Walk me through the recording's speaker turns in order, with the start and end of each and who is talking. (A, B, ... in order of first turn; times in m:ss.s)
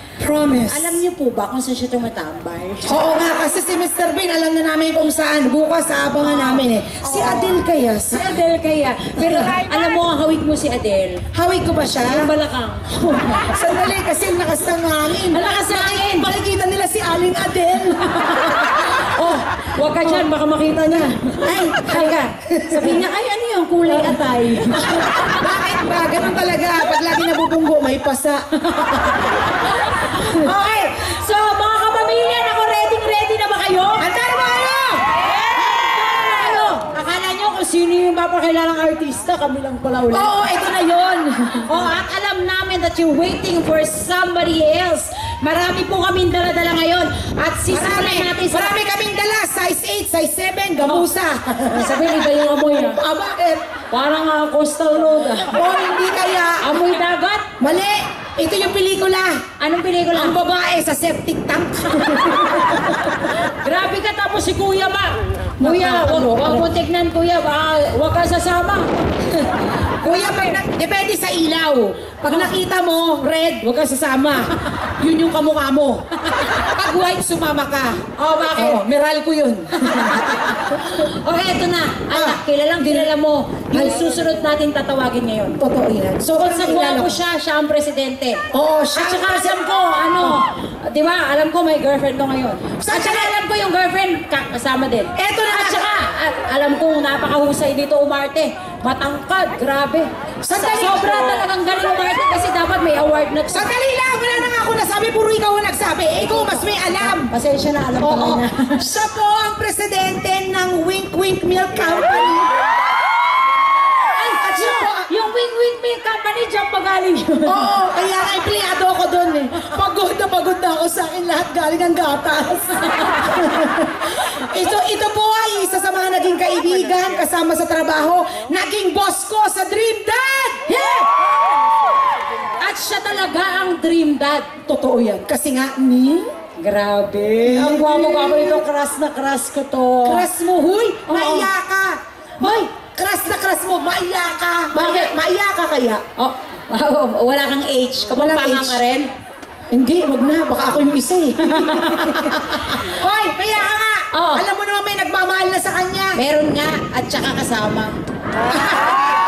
0:00.2-0:01.0 A
0:00.7-0:03.0 B
0:02.8-0:08.4 A
0:06.2-0:11.2 B
0:09.1-0:10.0 A
0:11.3-0:12.3 A
0:12.0-0:13.9 B
0:13.3-0:19.0 A
0:15.3-0:16.3 B
0:18.0-0:25.5 B
0:21.4-0:23.0 A
0:23.9-0:28.4 A
0:28.7-0:34.1 B
0:34.0-0:35.0 A
0:35.2-0:48.8 B
0:40.1-0:41.8 A
0:47.7-0:53.6 A
0:50.8-0:51.1 B
0:51.6-0:53.0 B
0:53.9-0:55.6 B
0:55.4-0:56.7 A
0:56.6-0:57.5 B
0:57.6-0:59.4 A
0:59.6-1:00.4 B
1:00.1-1:03.2 A
1:02.0-1:10.6 B
1:05.6-1:06.7 A
1:10.0-1:13.2 A
1:12.2-1:19.0 B
1:16.6-1:17.1 A
1:18.5-1:20.8 A
1:19.8-1:25.6 B
1:22.1-1:23.1 A
1:25.6-1:27.2 A
1:26.2-1:43.7 B
1:28.5-1:29.6 A
1:32.7-1:33.3 A
1:35.2-1:35.9 A
1:40.4-1:41.5 A
1:43.5-1:47.3 A
1:46.2-1:48.8 B
1:48.0-1:52.6 A
1:54.1-1:57.8 B
1:54.4-1:55.1 A
1:57.4-2:10.6 A
2:03.0-2:03.4 B
2:10.7-2:11.1 B
2:12.6-2:15.1 B
2:14.7-2:16.3 A
2:16.6-2:21.5 B
2:17.4-2:18.6 A
2:20.0-2:26.0 A
2:22.4-2:22.6 B
2:24.7-2:25.1 B
2:26.2-2:29.1 B
2:28.1-2:28.8 A
2:29.7-2:36.2 A
2:31.4-2:32.4 B
2:34.1-2:34.4 B
2:36.2-2:38.0 B
2:38.5-2:38.8 A